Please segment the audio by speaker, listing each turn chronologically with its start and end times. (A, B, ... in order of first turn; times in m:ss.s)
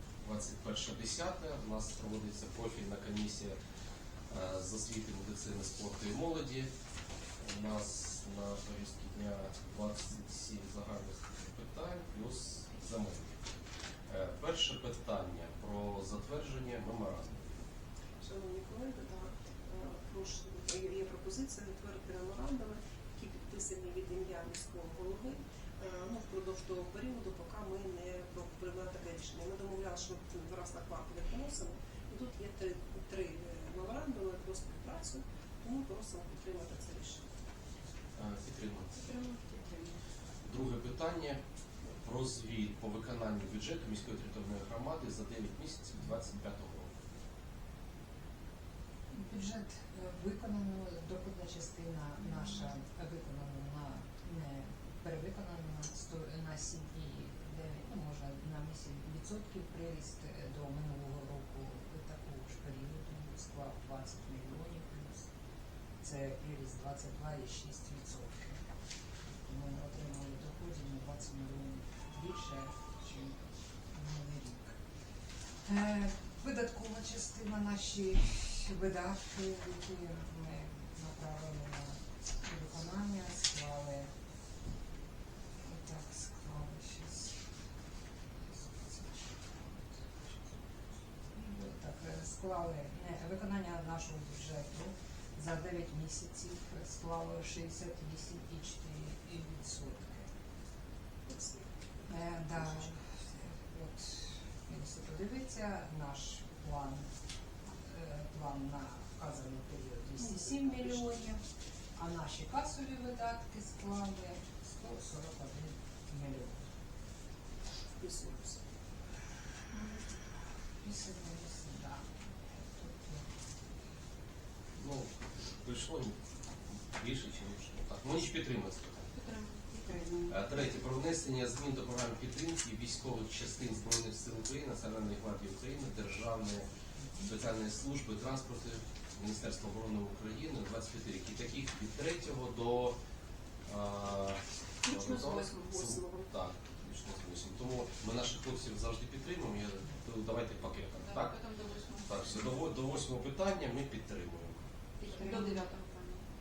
0:00.2-0:03.6 A
0:04.3-0:06.7 A
0:07.4-0:13.5 A
0:14.1-0:17.6 A
0:18.2-0:37.3 B
0:38.2-0:38.9 A
0:38.9-0:40.0 C
0:40.4-0:41.4 A
0:42.0-0:46.9 A
0:49.1-1:05.3 D
1:06.0-1:08.6 D
1:09.4-1:14.8 D
1:15.6-1:24.1 D
1:25.6-1:27.4 D
1:28.4-1:30.8 D
1:31.3-1:40.3 D
1:41.3-1:42.9 B
1:42.1-1:47.1 D
1:47.8-1:51.4 D
1:50.2-1:51.2 B
1:52.0-1:56.6 D
1:58.0-1:58.6 B
2:00.8-2:03.2 D
2:04.8-2:09.0 A
2:09.1-2:10.2 C
2:10.3-2:16.7 A
2:17.2-2:23.0 A
2:23.7-2:31.4 A
2:24.8-2:26.3 C
2:31.0-2:32.4 C
2:32.1-2:34.6 A
2:35.0-2:36.3 C